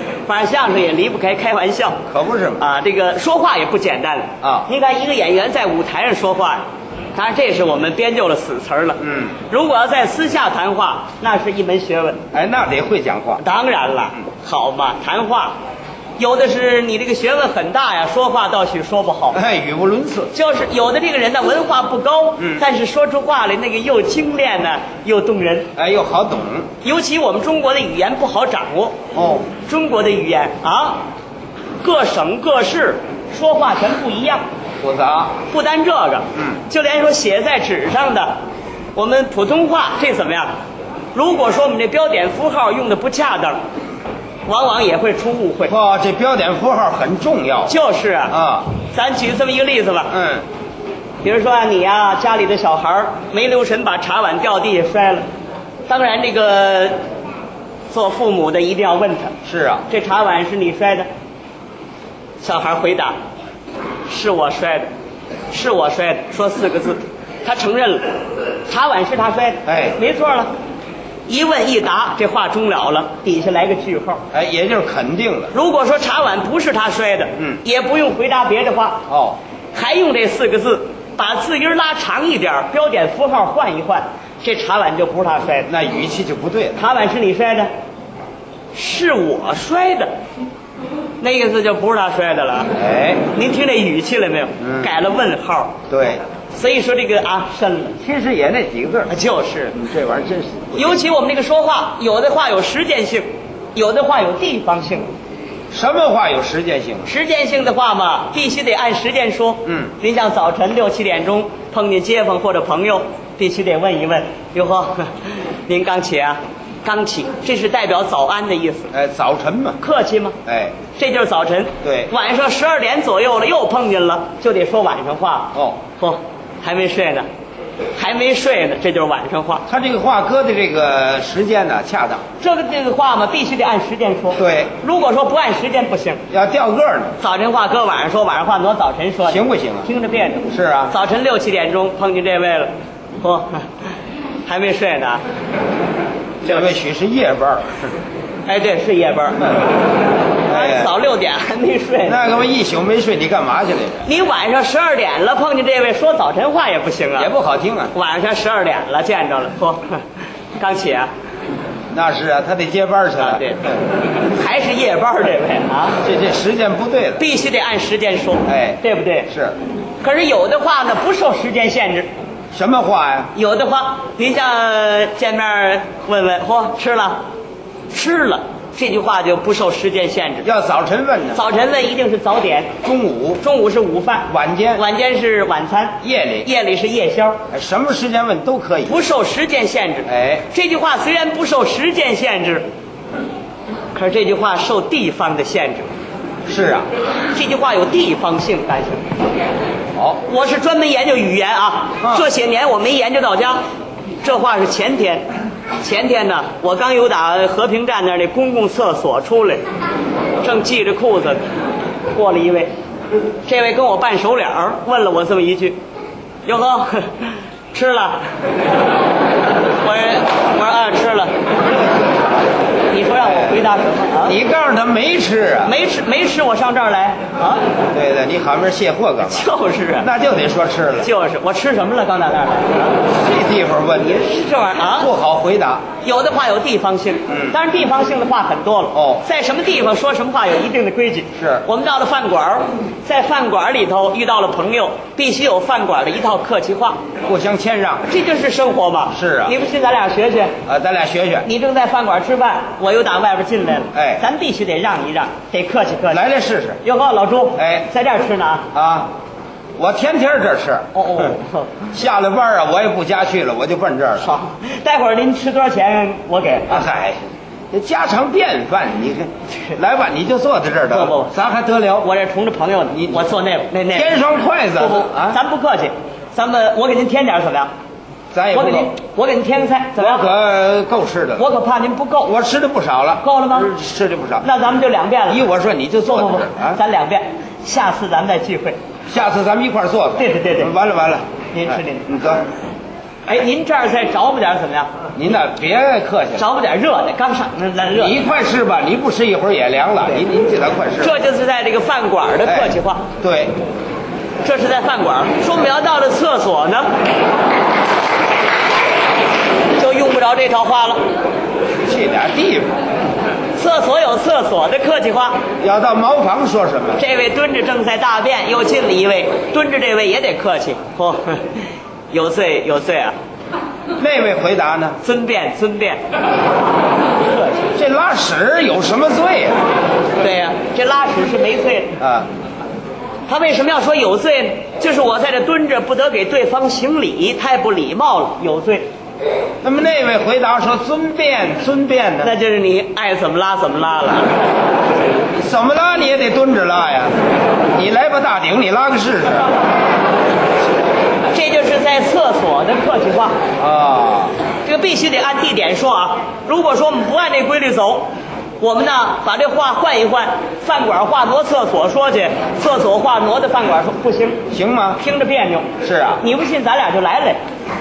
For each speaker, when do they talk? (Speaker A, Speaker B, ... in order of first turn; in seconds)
Speaker A: 0.2-2.0, 2.6-12.2, 13.4-15.6, 16.2-19.4, 20.3-25.7, 26.8-29.0, 29.6-31.0, 31.8-34.4, 35.5-38.3, 38.9-40.5, 41.1-43.6, 44.5-45.7, 47.7-50.1, 51.2-55.2, 55.9-57.0, 57.9-59.3, 59.9-61.1, 62.4-63.1, 64.1-64.9, 65.5-70.5, 71.3-74.2, 75.5-79.0, 79.7-85.7, 86.8-87.7, 88.7-90.1, 91.2-92.7, 93.3-95.8, 96.5-98.0, 99.1-99.8, 100.7-105.1, 107.0-118.9, 119.8-120.4, 120.9-127.3, 128.0-129.7, 132.4-136.2, 137.2-143.7, 144.4-145.2, 146.4-146.7, 148.5-149.6, 150.5-152.2, 154.0-157.3, 157.9-160.0, 160.6-161.1, 163.2-166.0, 167.2-169.3, 170.0-172.1, 173.3-177.2, 177.9-180.5, 181.3-182.7, 183.4-187.4, 188.8-192.7, 193.9-195.9, 197.3-199.0, 200.2-203.6, 204.2-205.3, 205.8-209.6, 210.4-211.4, 212.1-212.7, 213.4-215.8, 216.4-218.3, 219.8-221.3, 222.9-224.4, 225.6-227.6, 229.2-230.1, 231.0-233.0, 234.0-235.1, 236.0-247.0, 248.1-250.5, 251.4-256.2, 256.8-258.7, 260.9-261.7, 264.2-266.8, 270.9-271.4, 272.0-274.1, 274.8-277.7, 278.5-280.3, 281.4-282.3, 283.2-283.7, 284.4-285.4, 286.1-288.8, 290.2-290.7, 291.5-292.1, 293.3-295.0, 296.4-298.2, 301.0-303.1, 304.4-306.9, 309.8-311.0, 313.5-315.4, 316.9-323.1, 325.0-326.0, 330.2-332.0, 333.3-338.9, 342.2-344.4, 351.3-353.4, 354.6-358.1, 358.6-364.4, 365.0-367.4
Speaker B: 2.1-2.6, 4.4-4.7, 9.0-9.3, 12.3-13.4, 19.3-20.3, 25.8-26.7, 29.1-29.5, 34.8-35.4, 45.7-47.8, 48.3-48.6, 50.1-50.4, 59.4-59.8, 69.7-70.0, 74.3-75.5, 79.1-79.4, 85.7-86.8, 92.8-93.2, 94.6-94.9, 95.9-96.2, 98.0-99.1, 99.8-101.0, 105.7-107.1, 109.7-109.9, 118.9-119.8, 120.5-120.7, 121.8-122.1, 125.5-125.8, 129.7-132.2, 134.4-134.7, 136.3-137.2, 139.2-139.9, 140.5-140.9, 146.4-147.9, 150.5-150.9, 152.0-154.1, 157.2-157.9, 161.9-163.4, 166.0-167.2, 168.5-169.6, 172.5-173.3, 180.4-181.4, 182.8-183.4, 184.3-184.8, 186.0-186.5, 187.5-189.0, 190.1-190.4, 196.5-196.9, 202.0-202.3, 224.2-225.8, 227.9-229.4, 230.0-231.1, 233.1-234.2, 235.0-235.8, 237.3-237.6, 238.9-239.2, 241.4-241.6, 247.2-248.1, 249.1-249.6, 250.7-251.5, 253.9-254.2, 256.1-256.8, 257.6-257.9, 258.7-259.1, 259.8-261.3, 261.9-264.3, 266.7-267.2, 267.7-272.1, 272.9-273.3, 273.9-275.4, 278.3-278.9, 280.0-281.4, 282.2-284.4, 285.3-286.8, 289.1-291.2, 291.8-292.4, 295.1-296.4, 297.9-301.2, 302.4-303.6, 311.8-312.8, 315.6-317.0, 324.0-325.0, 327.7-329.6, 332.0-332.3, 339.6-342.3, 345.4-347.1, 347.7-349.5, 353.6-354.3, 364.5-365.0, 365.8-366.2